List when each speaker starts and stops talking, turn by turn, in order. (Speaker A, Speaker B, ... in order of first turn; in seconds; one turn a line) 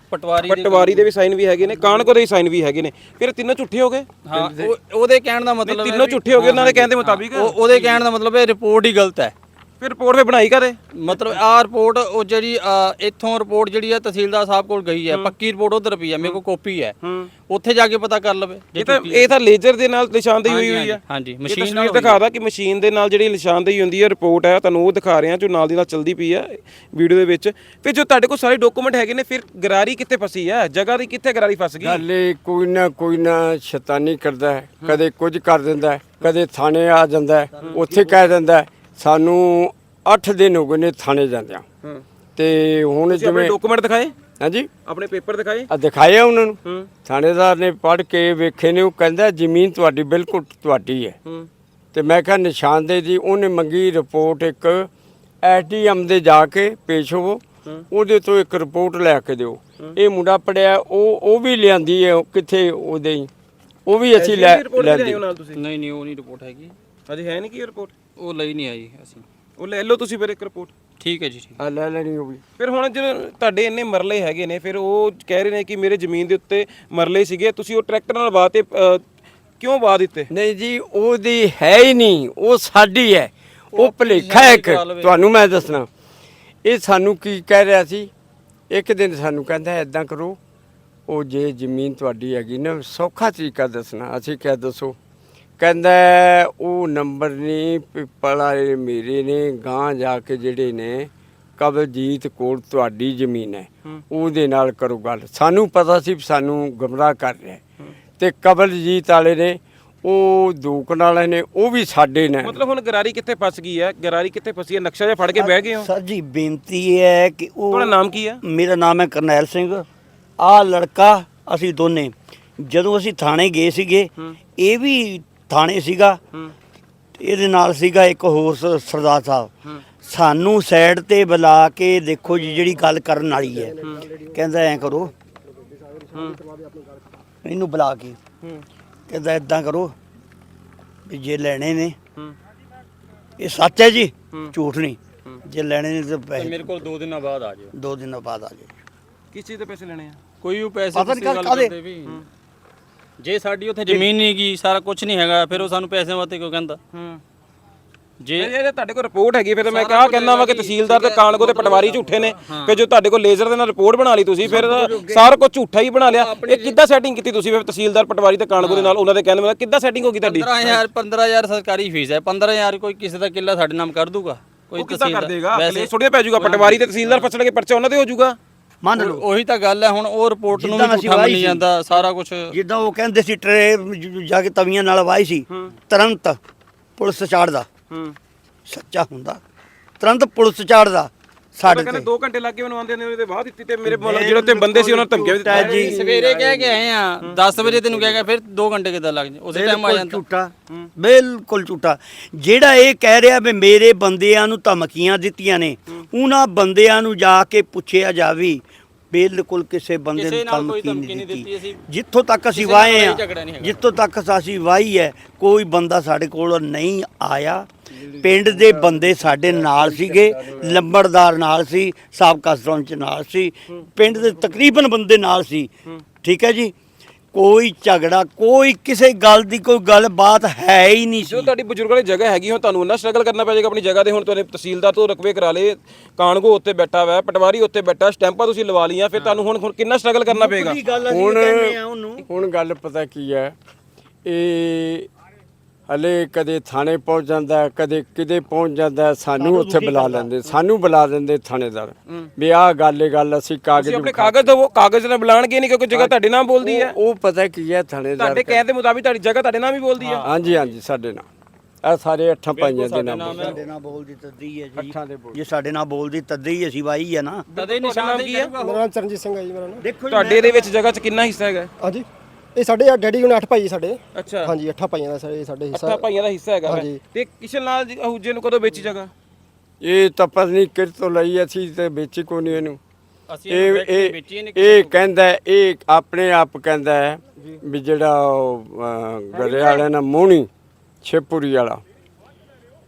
Speaker A: 0.1-1.1
Speaker B: 0.4-4.6
Speaker A: 4.2-9.3
Speaker B: 5.6-8.0
Speaker B: 9.8-11.4
Speaker A: 10.9-16.9
Speaker B: 17.0-17.3
Speaker A: 17.5-19.3
Speaker B: 18.8-32.0
Speaker A: 20.4-22.2
Speaker C: 31.8-41.6
Speaker B: 37.6-38.2
Speaker C: 42.4-43.6
Speaker B: 43.1-44.1
Speaker C: 44.4-44.7
Speaker B: 44.9-45.7
Speaker C: 45.7-51.2
Speaker C: 51.9-54.9
Speaker C: 55.4-63.3
Speaker C: 63.9-65.2
Speaker B: 64.2-65.6
Speaker A: 65.5-66.7
Speaker B: 67.1-67.9
Speaker A: 68.2-69.2
Speaker B: 69.6-70.7
Speaker A: 71.0-71.6
Speaker C: 71.6-72.4
Speaker B: 72.6-79.0
Speaker B: 79.6-80.3
Speaker C: 80.3-85.9
Speaker A: 83.7-85.2
Speaker C: 86.7-88.1
Speaker C: 88.7-90.4
Speaker C: 91.1-95.0
Speaker C: 95.6-107.6
Speaker C: 108.2-112.6
Speaker B: 112.4-115.9
Speaker D: 115.3-119.9
Speaker B: 117.7-118.4
Speaker D: 120.4-126.2
Speaker D: 127.2-129.5
Speaker D: 130.0-135.1
Speaker E: 135.8-137.0
Speaker D: 137.4-138.2
Speaker D: 139.1-139.9
Speaker D: 141.1-142.0
Speaker D: 143.4-146.7
Speaker A: 146.4-147.7
Speaker D: 147.7-148.7
Speaker B: 149.3-150.2
Speaker A: 150.4-152.2
Speaker D: 150.9-151.8
Speaker A: 153.2-156.8
Speaker B: 156.9-157.2
Speaker A: 158.2-158.5
Speaker B: 158.4-170.9
Speaker A: 159.7-162.8
Speaker A: 164.4-165.3
Speaker A: 166.1-166.8
Speaker A: 168.6-169.0
Speaker A: 170.2-177.3
Speaker B: 174.8-178.4
Speaker D: 178.8-179.3
Speaker A: 179.0-182.5
Speaker D: 180.5-181.7
Speaker D: 182.5-186.4
Speaker D: 187.0-187.7
Speaker D: 188.7-189.4
Speaker D: 190.0-192.1
Speaker B: 191.7-198.2
Speaker D: 193.8-196.7
Speaker A: 195.5-200.2
Speaker D: 199.5-225.7
Speaker A: 210.2-211.8
Speaker A: 212.5-213.9
Speaker D: 226.2-226.8
Speaker D: 227.3-231.5
Speaker B: 231.2-240.8
Speaker D: 240.3-242.2
Speaker C: 241.1-243.5
Speaker C: 244.2-245.1
Speaker C: 245.9-254.4
Speaker D: 249.4-250.4
Speaker B: 253.8-256.9
Speaker C: 255.9-258.6
Speaker B: 258.2-260.2
Speaker A: 260.0-260.3
Speaker C: 260.2-261.3
Speaker C: 261.8-263.5
Speaker A: 262.5-263.6
Speaker D: 263.2-267.5
Speaker C: 264.8-265.4
Speaker B: 267.5-268.5
Speaker A: 267.5-268.9
Speaker E: 268.6-269.8
Speaker D: 269.8-270.7
Speaker B: 270.1-271.7
Speaker E: 271.8-276.0
Speaker B: 274.2-274.5
Speaker B: 275.7-279.1
Speaker E: 276.6-277.0
Speaker C: 279.8-282.8
Speaker A: 283.3-285.1
Speaker C: 283.5-290.5
Speaker B: 289.4-289.8
Speaker C: 291.0-291.8